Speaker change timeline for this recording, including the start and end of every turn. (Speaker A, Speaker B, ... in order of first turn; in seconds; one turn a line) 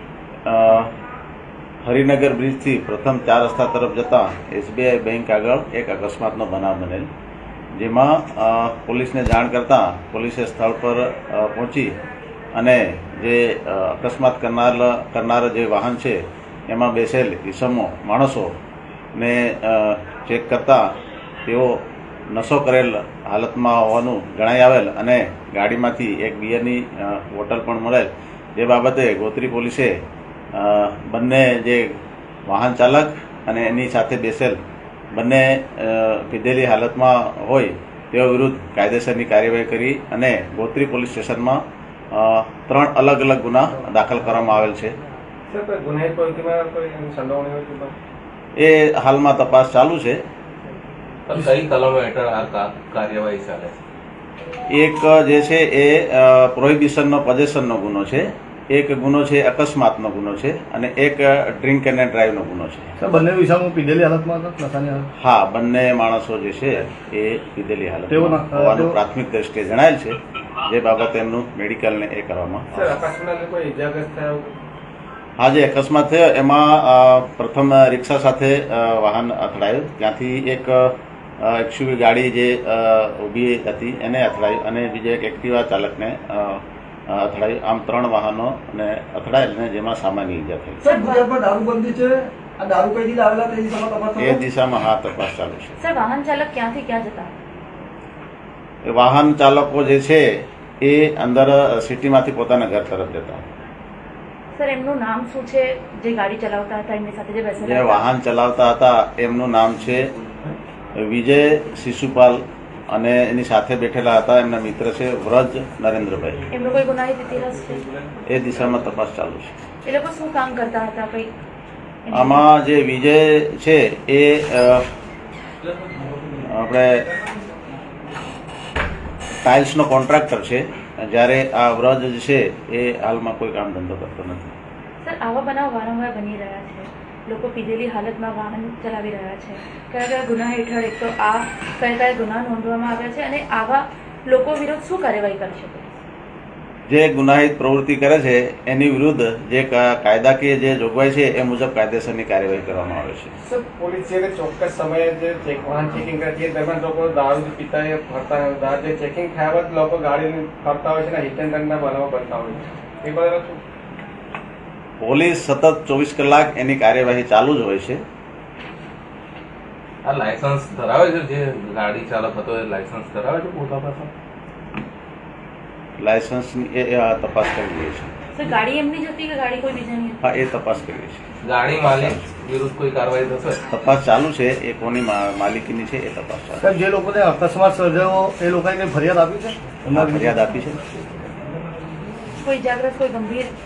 Speaker A: 0.5-0.9
Speaker A: 1.8-7.1
Speaker A: 7.8-12.0
Speaker A: 12.5-18.5
Speaker A: 19.1-20.9
Speaker A: 21.4-29.9
Speaker A: 30.5-34.6
Speaker A: 35.1-44.9
Speaker B: 45.5-47.9
Speaker A: 48.6-50.2
Speaker C: 51.3-53.8
Speaker A: 54.7-63.0
Speaker D: 63.0-65.1
Speaker A: 65.2-73.1
Speaker D: 68.1-69.0
Speaker B: 72.7-74.5
Speaker A: 75.4-90.9
Speaker E: 90.8-94.3
Speaker F: 90.9-91.3
Speaker A: 94.2-95.8
Speaker F: 95.8-97.3
Speaker A: 98.9-103.5
Speaker F: 104.5-108.1
Speaker A: 107.6-110.1
Speaker A: 111.0-116.5
Speaker F: 116.5-118.0
Speaker A: 118.2-119.5
Speaker F: 119.8-121.3
Speaker F: 122.1-122.5
Speaker A: 122.1-124.9
Speaker A: 126.4-127.0
Speaker A: 129.4-134.5
Speaker F: 135.0-146.0
Speaker A: 146.9-153.3
Speaker B: 153.4-163.6
Speaker A: 165.0-168.0
Speaker C: 170.0-174.1
Speaker A: 176.0-178.1
Speaker F: 178.3-180.5
Speaker A: 180.2-182.2
Speaker C: 181.4-183.6
Speaker A: 183.7-186.7
Speaker D: 186.6-190.4
Speaker A: 189.9-190.8
Speaker F: 192.4-193.5